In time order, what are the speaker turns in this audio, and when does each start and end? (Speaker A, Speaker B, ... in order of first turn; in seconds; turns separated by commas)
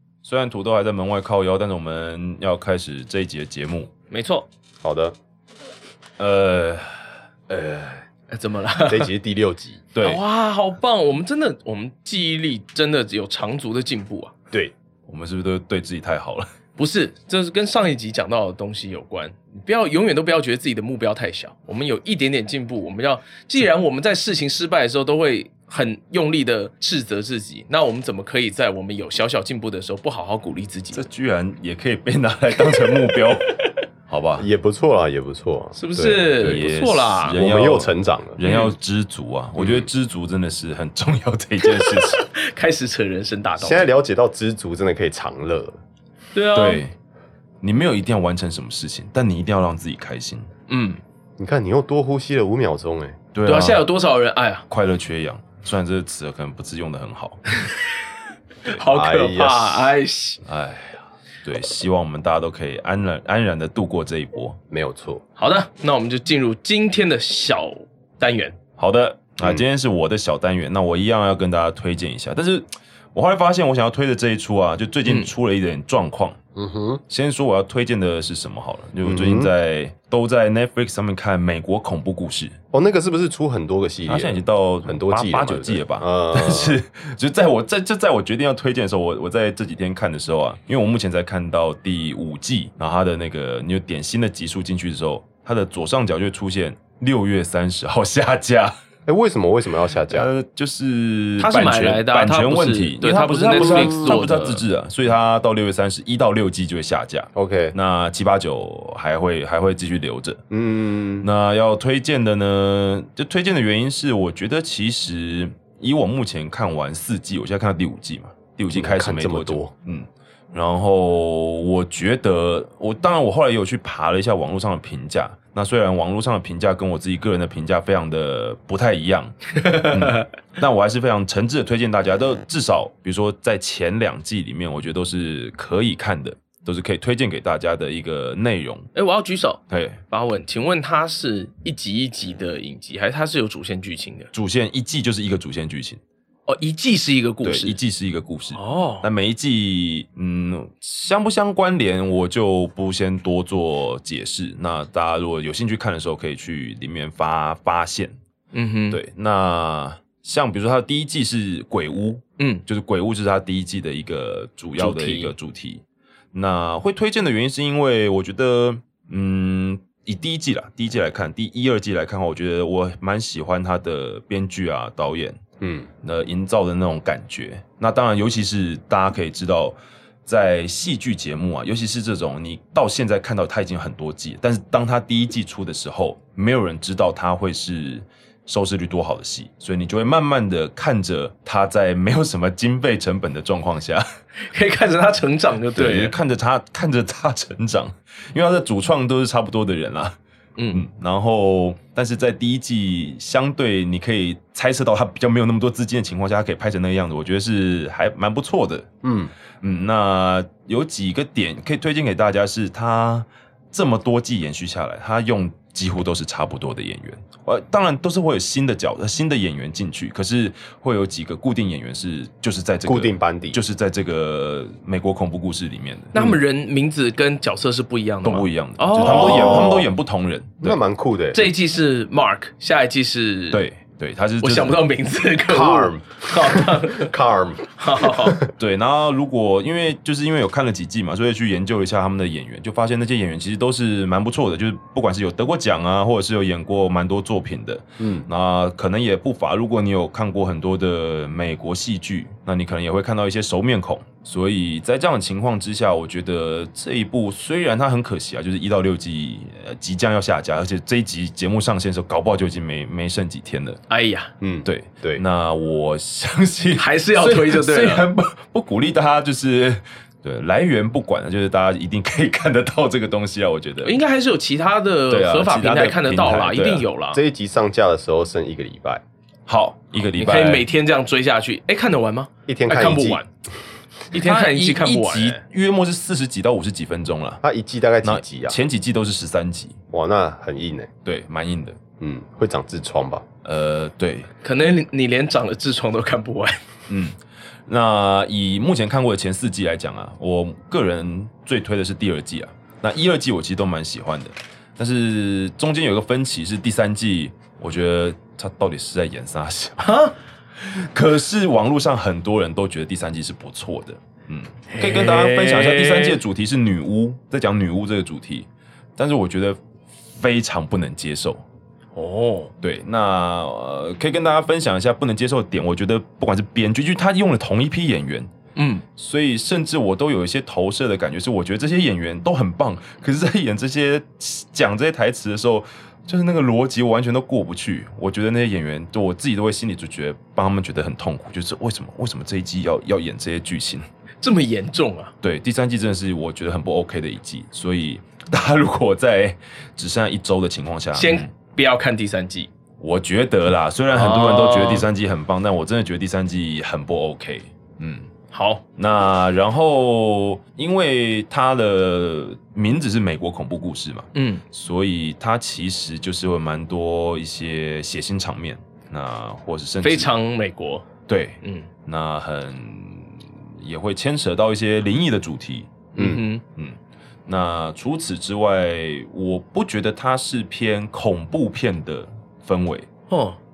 Speaker A: 0.2-3.9, Speaker B: 4.1-4.5, Speaker C: 4.8-5.2, Speaker A: 6.2-7.0, Speaker A: 7.5-8.0, Speaker B: 8.3-9.1, Speaker C: 8.9-9.8, Speaker A: 9.9-10.2, Speaker B: 10.0-14.3, Speaker A: 15.1-16.5, Speaker B: 16.8-31.0, Speaker A: 30.9-33.6, Speaker A: 34.1-34.5, Speaker C: 34.4-36.4, Speaker B: 35.8-37.4, Speaker A: 36.4-42.2, Speaker C: 37.3-38.4, Speaker B: 38.4-38.7, Speaker C: 39.6-39.9, Speaker B: 41.8-43.9, Speaker C: 43.6-45.8, Speaker B: 46.3-46.8, Speaker A: 46.5-46.9, Speaker A: 47.6-50.5, Speaker B: 50.7-51.0, Speaker C: 51.4-53.2, Speaker A: 53.3-53.9, Speaker B: 53.5-54.7, Speaker A: 54.7-57.4, Speaker B: 57.6-58.1, Speaker B: 58.6-60.4, Speaker C: 58.8-59.9, Speaker A: 60.5-64.6, Speaker C: 64.7-65.2, Speaker B: 65.4-68.6, Speaker A: 68.8-76.4, Speaker B: 75.0-75.3, Speaker C: 76.6-77.0, Speaker A: 77.1-82.6, Speaker C: 79.0-79.5, Speaker C: 82.7-86.8, Speaker A: 84.1-98.8, Speaker C: 99.1-100.3, Speaker A: 100.1-110.4, Speaker B: 101.4-104.6, Speaker C: 103.5-104.3, Speaker C: 107.3-107.8, Speaker C: 110.5-111.3, Speaker A: 111.2-138.9, Speaker C: 118.7-119.7, Speaker B: 129.6-130.3, Speaker B: 138.9-144.3, Speaker A: 139.7-140.0, Speaker A: 144.3-146.0, Speaker B: 146.5-147.8, Speaker A: 147.4-158.2, Speaker B: 148.5-149.1, Speaker B: 158.5-159.0, Speaker A: 158.9-165.8, Speaker B: 164.8-165.3, Speaker A: 166.3-175.4, Speaker C: 175.6-175.9, Speaker A: 176.0-194.1, Speaker B: 194.5-196.2, Speaker A: 195.8-200.2, Speaker B: 200.6-200.8, Speaker A: 200.7-208.9, Speaker C: 209.0-209.3, Speaker A: 209.6-226.4, Speaker C: 222.8-223.6, Speaker B: 226.1-229.8, Speaker A: 228.2-230.8, Speaker C: 228.9-229.9, Speaker C: 230.6-231.5, Speaker B: 231.3-233.6, Speaker A: 233.5-234.8, Speaker B: 234.4-237.1, Speaker C: 235.5-238.5, Speaker B: 237.8-238.4, Speaker A: 238.5-263.8, Speaker C: 248.0-248.3, Speaker B: 263.9-264.3, Speaker C: 264.4-265.2, Speaker A: 264.6-273.9, Speaker B: 266.8-268.1, Speaker B: 273.8-277.2, Speaker A: 275.1-276.9, Speaker C: 277.1-279.0, Speaker A: 279.5-280.7, Speaker B: 280.2-283.3, Speaker C: 282.5-283.2, Speaker B: 284.1-285.4, Speaker A: 284.1-287.4, Speaker C: 287.4-288.6, Speaker A: 288.0-289.8, Speaker C: 289.9-290.9, Speaker A: 291.1-291.8, Speaker C: 292.0-293.3, Speaker A: 293.4-294.3, Speaker B: 294.4-296.6, Speaker A: 296.9-309.8, Speaker B: 309.8-310.1, Speaker A: 310.6-321.4, Speaker B: 314.7-316.2, Speaker B: 321.9-322.5, Speaker A: 322.6-328.3, Speaker B: 328.6-328.8, Speaker A: 329.0-343.9, Speaker B: 344.2-345.1, Speaker A: 345.2-351.3, Speaker B: 350.9-352.5, Speaker A: 352.8-358.1, Speaker B: 353.9-354.9, Speaker B: 358.3-358.6, Speaker A: 358.8-370.1, Speaker B: 364.1-364.4, Speaker B: 369.8-370.9, Speaker A: 371.1-375.9, Speaker B: 375.9-376.4, Speaker A: 377.3-382.9, Speaker B: 383.1-383.4